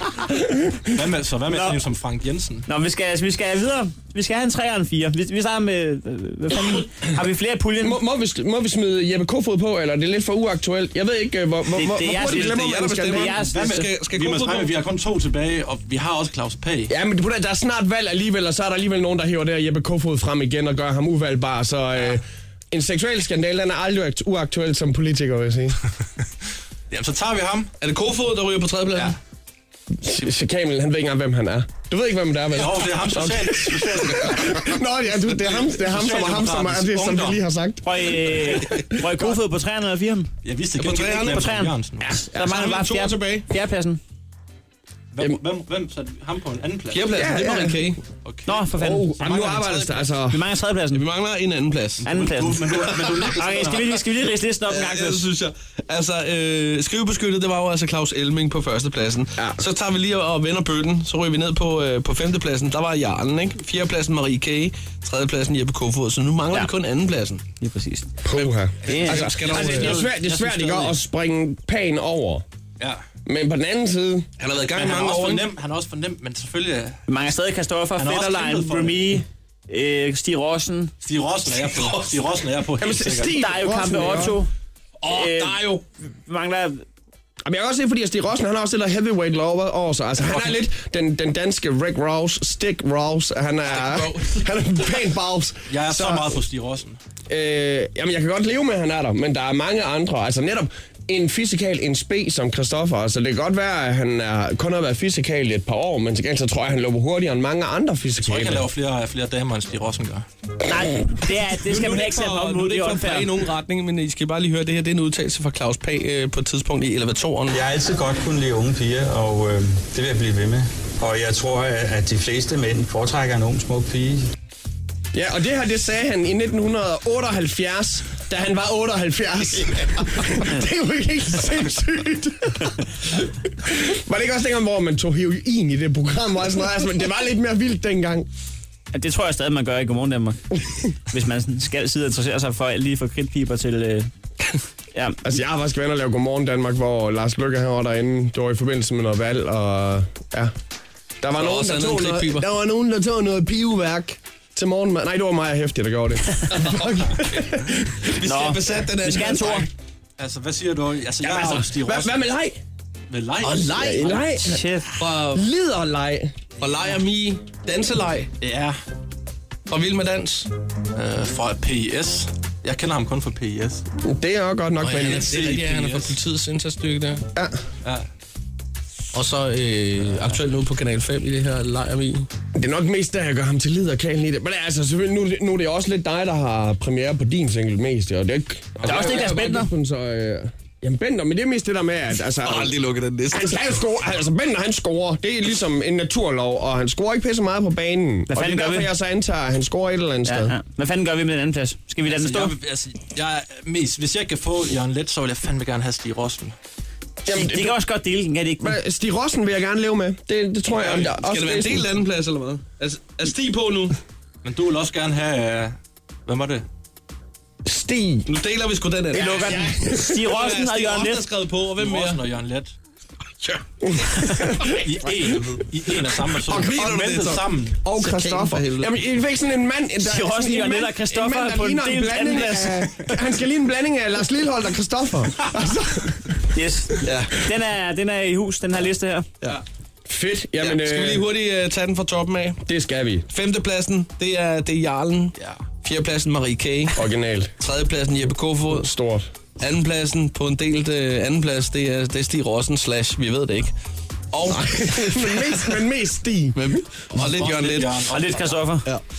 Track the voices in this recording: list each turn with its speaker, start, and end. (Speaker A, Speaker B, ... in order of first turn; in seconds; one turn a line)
Speaker A: 0.9-2.7
Speaker B: 1.5-1.8
Speaker B: 2.7-8.0
Speaker C: 7.8-13.4
Speaker B: 11.7-13.9
Speaker D: 12.1-14.7
Speaker A: 13.4-16.9
Speaker C: 16.9-25.8
Speaker A: 26.9-27.7
Speaker D: 27.8-29.2
Speaker C: 30.0-37.9
Speaker A: 32.5-34.4
Speaker A: 35.3-37.5
Speaker B: 37.8-40.3
Speaker C: 38.7-39.3
Speaker A: 40.4-42.2
Speaker D: 40.8-41.5
Speaker B: 41.2-44.0
Speaker D: 42.1-43.5
Speaker A: 45.1-47.1
Speaker D: 46.9-48.0
Speaker C: 47.1-47.9
Speaker A: 48.2-48.7
Speaker B: 48.5-49.5
Speaker C: 48.8-50.4
Speaker A: 49.3-49.6
Speaker D: 49.3-49.9
Speaker B: 50.3-51.0
Speaker D: 50.9-52.1
Speaker A: 52.0-54.0
Speaker B: 52.0-55.3
Speaker D: 52.7-53.2
Speaker D: 54.7-67.4
Speaker C: 59.4-59.6
Speaker B: 67.6-68.1
Speaker C: 68.2-72.4
Speaker D: 68.3-70.0
Speaker B: 68.8-69.8
Speaker A: 69.5-71.0
Speaker C: 73.2-74.3
Speaker D: 74.4-75.5
Speaker A: 74.7-77.0
Speaker B: 77.1-80.9
Speaker A: 78.0-79.2
Speaker A: 81.0-83.4
Speaker D: 81.6-82.2
Speaker C: 82.8-84.4
Speaker B: 83.3-84.5
Speaker D: 85.0-85.8
Speaker B: 85.1-86.8
Speaker C: 87.5-96.4
Speaker D: 93.7-94.5
Speaker A: 95.7-97.0
Speaker C: 97.3-108.7
Speaker A: 108.2-110.3
Speaker B: 110.7-113.3
Speaker D: 111.6-117.6
Speaker E: 117.5-124.2
Speaker C: 125.1-132.7
Speaker C: 133.2-138.3
Speaker B: 138.9-140.5
Speaker B: 141.1-144.1
Speaker C: 145.2-150.5
Speaker C: 151.2-157.9
Speaker D: 151.4-152.5
Speaker D: 156.5-159.7
Speaker B: 158.2-159.7
Speaker A: 160.2-162.2
Speaker C: 161.3-162.6
Speaker A: 163.1-164.1
Speaker D: 163.4-164.2
Speaker C: 163.5-164.7
Speaker B: 164.4-164.9
Speaker D: 165.0-165.5
Speaker C: 165.3-166.4
Speaker D: 166.6-168.3
Speaker A: 168.4-168.8
Speaker D: 169.7-170.5
Speaker A: 171.0-173.8
Speaker C: 174.0-175.3
Speaker D: 174.8-177.3
Speaker A: 175.1-176.2
Speaker D: 179.1-182.3
Speaker C: 182.6-192.8
Speaker A: 188.8-189.1
Speaker B: 188.8-189.7
Speaker D: 192.4-193.9
Speaker C: 193.3-200.6
Speaker B: 198.3-198.9
Speaker B: 200.3-202.6
Speaker A: 202.0-206.6
Speaker C: 207.2-207.8
Speaker B: 207.3-208.8
Speaker C: 208.6-211.9
Speaker D: 210.7-214.0
Speaker A: 214.4-216.7
Speaker C: 217.7-218.3
Speaker D: 218.3-222.2
Speaker B: 219.1-221.3
Speaker C: 219.2-220.2
Speaker A: 221.8-222.7
Speaker C: 223.8-224.8
Speaker A: 224.8-227.8
Speaker D: 226.4-229.0
Speaker C: 226.5-226.9
Speaker C: 227.8-236.3
Speaker B: 230.0-233.1
Speaker B: 236.5-239.3
Speaker D: 237.0-237.3
Speaker C: 240.1-241.3
Speaker D: 240.6-242.6
Speaker C: 242.7-243.3
Speaker D: 243.3-247.0
Speaker A: 245.4-245.7
Speaker C: 246.9-247.5
Speaker D: 247.6-248.9
Speaker C: 248.7-249.3
Speaker D: 249.6-253.7
Speaker D: 254.3-255.8
Speaker C: 254.4-256.6
Speaker D: 256.5-258.1
Speaker A: 257.2-258.8
Speaker B: 258.1-258.9